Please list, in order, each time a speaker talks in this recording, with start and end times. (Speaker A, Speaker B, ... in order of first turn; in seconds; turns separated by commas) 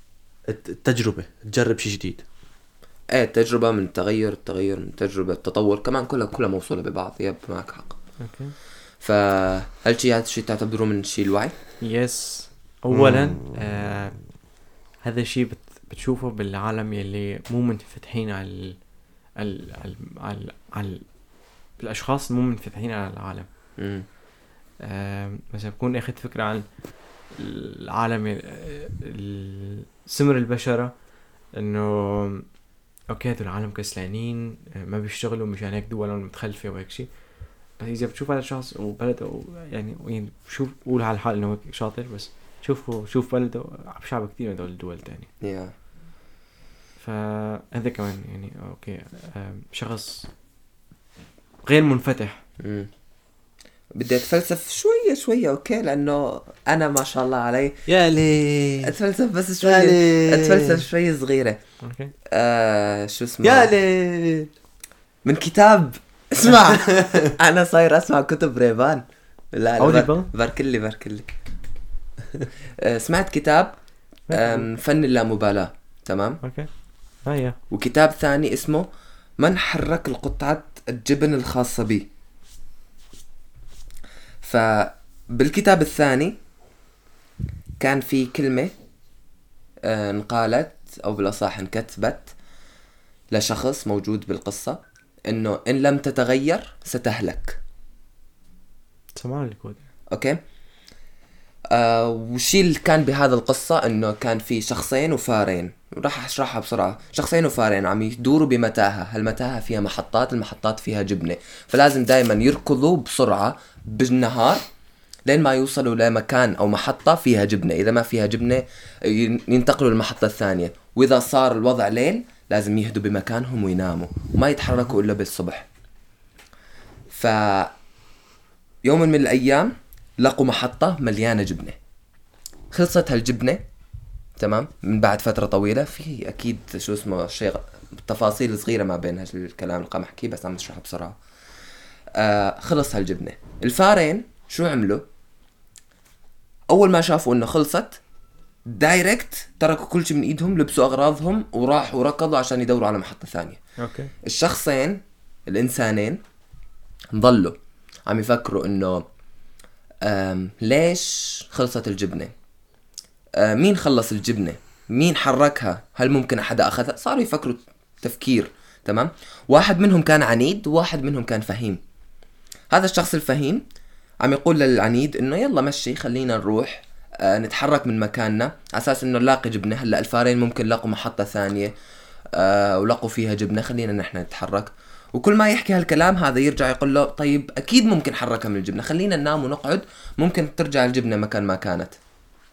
Speaker A: 0.5-2.2, Speaker B: 3.1-8.0, Speaker C: 8.2-8.5, Speaker B: 9.0-11.5, Speaker C: 11.8-14.2, Speaker A: 12.9-13.4, Speaker C: 15.0-18.8, Speaker C: 19.4-21.0, Speaker C: 21.8-23.5, Speaker B: 23.8-24.1, Speaker C: 24.8-26.6, Speaker C: 27.3-30.9, Speaker C: 31.6-32.5, Speaker C: 33.1-37.1, Speaker C: 37.8-45.3, Speaker B: 45.4-45.7, Speaker C: 47.0-50.3, Speaker C: 51.6-52.4, Speaker B: 52.6-52.9, Speaker B: 53.9-57.8, Speaker A: 57.9-58.9, Speaker B: 58.8-61.6, Speaker A: 59.6-60.9, Speaker C: 61.8-62.1, Speaker B: 62.3-63.7, Speaker A: 63.4-64.5, Speaker B: 65.2-71.3, Speaker A: 67.0-67.3, Speaker C: 69.8-70.3, Speaker B: 72.8-73.7, Speaker C: 74.3-74.7, Speaker B: 74.3-76.4, Speaker C: 76.4-76.7, Speaker C: 77.2-77.6, Speaker B: 77.7-78.9, Speaker B: 79.4-82.1, Speaker B: 84.4-86.3, Speaker B: 87.8-88.7, Speaker B: 89.8-92.3, Speaker B: 93.3-97.6, Speaker C: 99.2-99.8, Speaker B: 100.1-100.4, Speaker B: 101.7-114.6, Speaker B: 115.3-125.7, Speaker B: 127.1-127.7, Speaker B: 128.8-131.8, Speaker B: 132.7-133.6, Speaker B: 134.4-141.2, Speaker B: 142.1-145.0, Speaker B: 146.7-148.0, Speaker B: 148.7-153.6, Speaker C: 153.8-154.1, Speaker B: 154.2-156.2, Speaker B: 157.1-157.6, Speaker B: 158.1-159.1, Speaker B: 160.0-162.3, Speaker B: 163.4-171.8, Speaker B: 172.7-173.6, Speaker B: 174.2-181.7, Speaker B: 182.3-192.0